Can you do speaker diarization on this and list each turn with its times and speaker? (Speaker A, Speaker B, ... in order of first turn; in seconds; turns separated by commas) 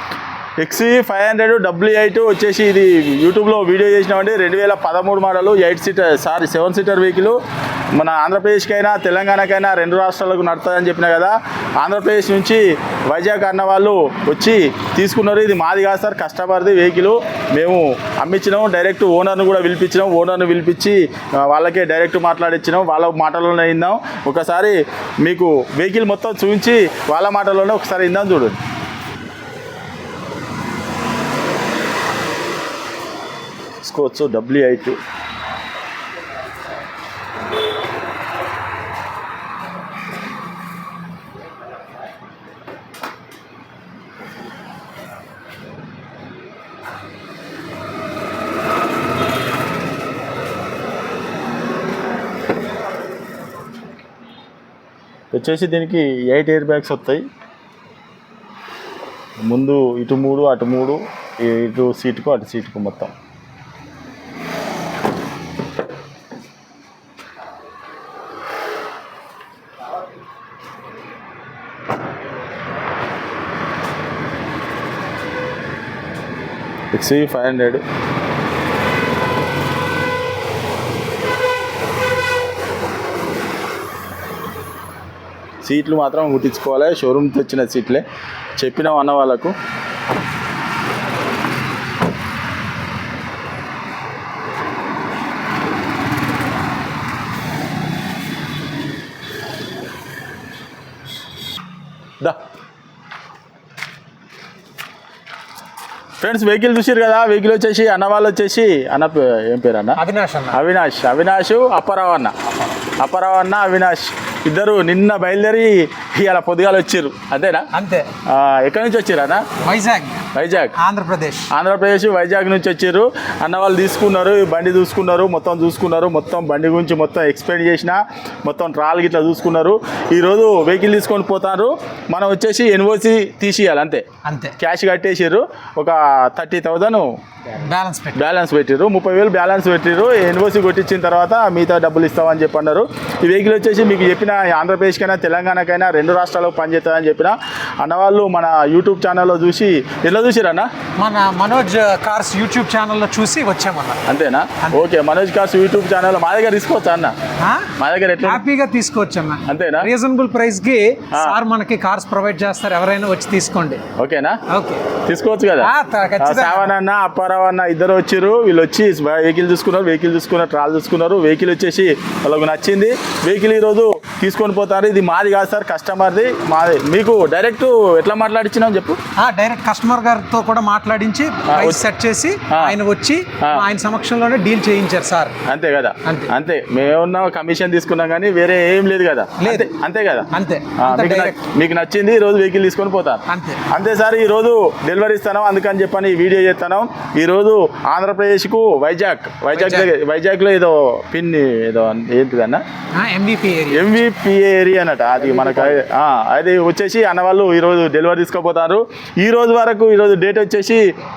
Speaker A: 0.6-7.4, Speaker A: 7.9-28.6, Speaker A: 33.8-35.0, Speaker A: 55.3-57.2, Speaker A: 59.5-63.1, Speaker A: 76.9-77.8, Speaker A: 85.6-88.0, Speaker A: 88.6-89.5, Speaker A: 106.2-110.0, Speaker B: 110.0-110.6, Speaker A: 110.5-117.7, Speaker B: 117.7-118.1, Speaker A: 118.2-119.5, Speaker B: 119.6-121.5, Speaker A: 120.3-120.8, Speaker A: 121.5-134.1, Speaker B: 134.2-134.5, Speaker A: 134.6-137.1, Speaker B: 137.5-138.2, Speaker A: 138.2-150.7, Speaker B: 151.0-154.1, Speaker A: 154.1-157.1, Speaker B: 157.4-163.8, Speaker A: 157.8-158.4, Speaker A: 159.5-159.9, Speaker A: 164.0-164.4, Speaker B: 164.5-165.0, Speaker A: 165.0-179.0, Speaker B: 165.6-166.7, Speaker B: 179.2-185.3, Speaker A: 181.5-181.8, Speaker A: 182.5-182.8, Speaker A: 185.4-202.6, Speaker B: 186.0-186.3, Speaker B: 189.4-189.7, Speaker B: 190.3-191.4, Speaker B: 193.3-193.7, Speaker B: 199.5-199.9, Speaker B: 202.9-203.9, Speaker A: 203.7-210.9